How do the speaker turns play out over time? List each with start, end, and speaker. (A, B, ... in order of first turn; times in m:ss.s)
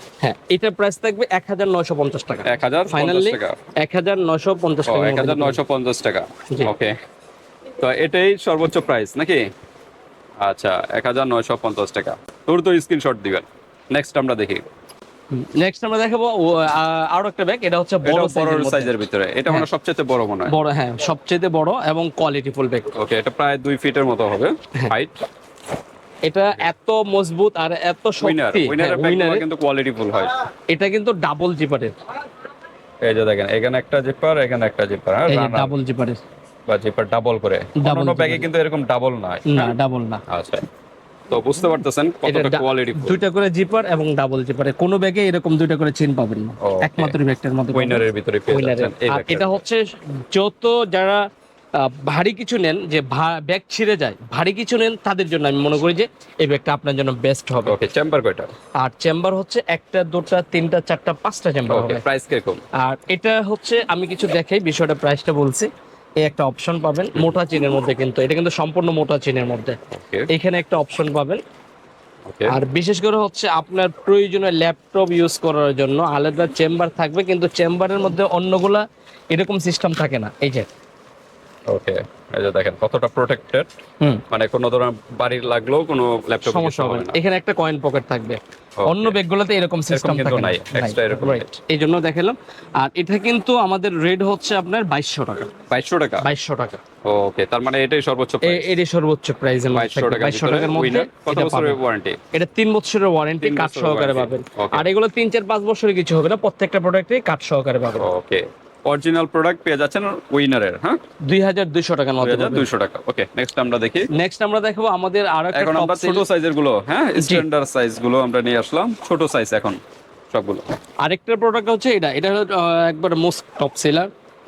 0:00.2-0:05.6 A
0:02.4-0:03.6 B
0:04.9-0:07.0 B
0:07.8-0:09.4 B
0:10.4-0:14.6 B
0:15.3-0:18.9 A
0:18.0-0:20.6 B
0:20.5-0:22.9 A
0:23.0-0:25.2 B
0:26.2-0:29.4 A
0:28.2-0:30.4 B
0:30.7-0:32.0 A
0:33.0-0:35.8 B
0:35.3-0:36.2 A
0:36.7-0:39.8 B
0:37.8-0:38.5 A
0:39.5-0:40.2 A
0:40.3-0:40.6 B
0:41.3-0:43.2 B
0:42.3-0:51.2 A
0:46.6-0:47.2 B
0:47.7-0:49.6 B
0:51.8-0:57.8 A
0:57.6-0:58.5 B
0:58.8-1:02.0 A
1:01.7-1:02.6 B
1:02.8-1:05.7 A
1:06.2-1:09.8 A
1:07.2-1:07.4 B
1:09.9-1:10.3 B
1:10.3-1:11.4 A
1:12.3-1:12.6 B
1:12.5-1:20.7 A
1:21.7-1:23.7 B
1:24.3-1:27.2 B
1:26.4-1:35.5 A
1:28.8-1:29.2 B
1:29.9-1:31.5 B
1:35.7-1:36.3 B
1:36.2-1:36.8 A
1:37.0-1:38.7 B
1:38.4-1:41.8 A
1:39.7-1:42.2 B
1:42.3-1:48.1 A
1:43.4-1:44.9 B
1:48.0-1:51.0 B
1:51.3-1:52.7 A
1:52.2-1:54.1 B
1:54.1-1:56.2 A
1:55.5-1:59.8 B
1:57.2-1:57.4 A
2:00.3-2:00.6 B
2:01.0-2:04.1 A